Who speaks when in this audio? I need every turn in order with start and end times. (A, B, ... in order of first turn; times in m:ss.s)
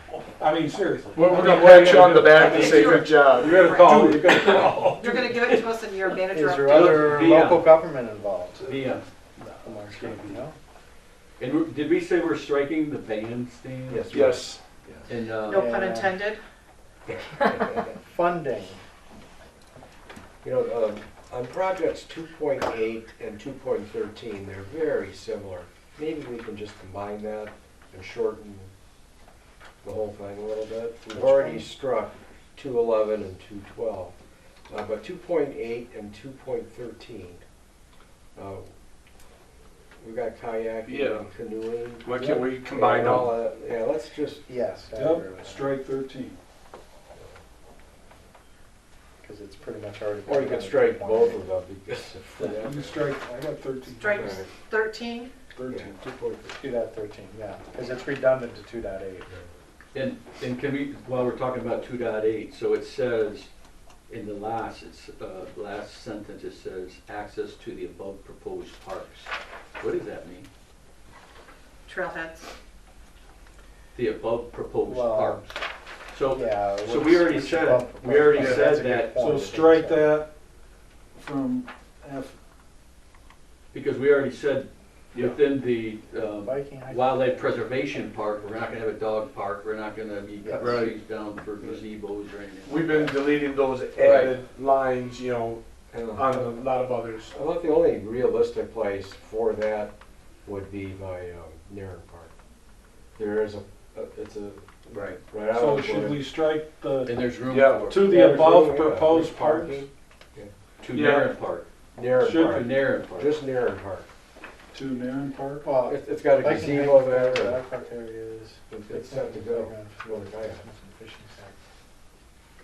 0:00.4-0:05.2 A
0:01.1-0:03.7 B
0:02.4-0:04.1 C
0:03.9-0:04.6 D
0:04.8-0:07.2 C
0:06.3-0:10.5 E
0:06.7-0:07.7 D
0:08.6-0:09.1 D
0:09.9-0:10.3 A
0:11.4-0:14.2 D
0:13.9-0:14.5 F
0:14.1-0:14.6 B
0:15.1-0:15.7 D
0:15.4-0:16.4 C
0:15.5-0:16.2 E
0:17.9-0:18.8 E
0:20.4-0:28.7 F
0:29.8-0:34.1 F
0:31.1-0:31.7 E
0:34.7-0:37.4 F
0:38.3-0:38.7 F
0:40.0-0:44.5 F
0:40.8-0:41.2 B
0:42.0-0:43.3 B
0:44.5-0:45.7 E
0:44.9-0:46.4 A
0:49.2-0:51.4 E
0:50.2-0:53.1 F
0:52.4-0:54.4 A
0:54.0-0:55.3 C
0:54.1-0:54.5 F
0:55.6-0:55.9 A
0:55.7-0:56.5 F
0:56.6-0:59.3 E
0:59.9-1:03.5 D
1:04.1-1:10.5 D
1:11.8-1:12.5 C
1:13.9-1:15.5 D
1:14.8-1:15.4 E
1:16.1-1:19.1 D
1:16.3-1:20.1 E
1:18.3-1:20.3 A
1:21.2-1:22.4 A
1:23.7-1:33.2 D
1:26.4-1:27.5 E
1:30.4-1:30.8 E
1:30.6-1:30.9 B
1:32.6-1:37.3 B
1:34.0-1:34.4 D
1:35.9-1:36.5 F
1:37.3-1:39.9 F
1:40.4-1:42.3 F
1:43.2-1:46.2 F
1:44.9-1:45.2 B
1:45.5-1:47.2 A
1:47.0-1:48.1 D
1:47.5-1:48.0 B
1:47.9-1:49.9 A
1:47.9-1:50.5 F
1:50.8-1:51.6 D
1:50.9-1:51.3 B
1:51.9-1:54.1 F
1:52.1-1:52.8 A
1:52.5-1:53.4 D
1:54.7-1:55.7 A
1:55.6-2:01.6 E
1:55.8-1:57.6 F
1:58.7-2:00.6 F